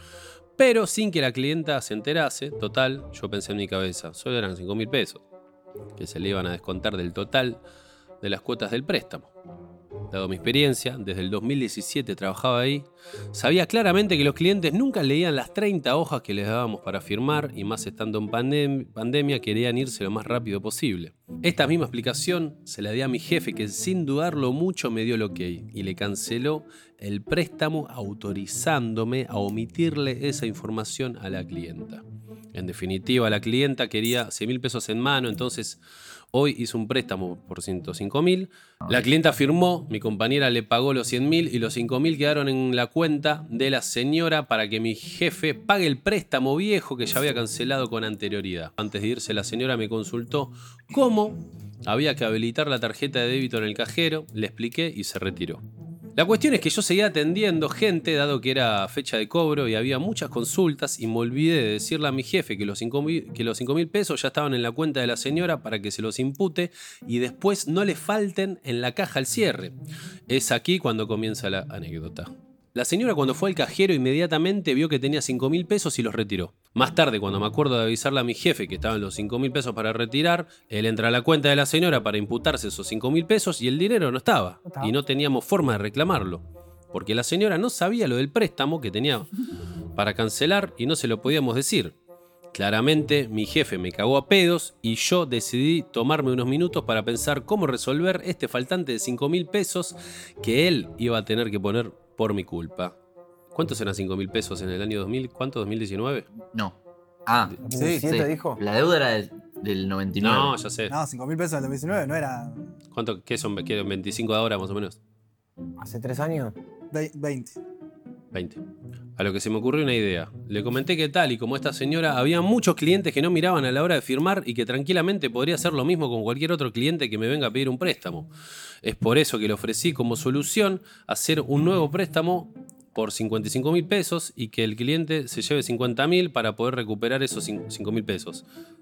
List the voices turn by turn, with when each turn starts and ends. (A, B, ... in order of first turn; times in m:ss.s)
0:00.6-0:05.2 A
0:06.0-0:07.6 A
0:08.2-0:09.3 A
0:10.1-0:32.0 A
0:32.5-0:35.8 A
0:36.3-0:55.6 A
0:56.2-1:09.7 A
1:10.3-1:29.3 A
1:24.6-1:24.9 B
1:29.9-1:31.9 A
1:32.5-1:43.0 A
1:43.5-1:46.3 A
1:46.5-1:50.5 C
1:47.6-1:48.6 B
1:47.8-1:48.0 D
1:50.2-1:50.9 A
1:50.9-1:52.6 D
1:52.9-1:55.0 A
1:55.8-1:56.5 B
1:56.9-1:57.6 D
1:58.3-1:58.6 A
1:59.2-2:08.3 A
2:08.8-2:18.4 A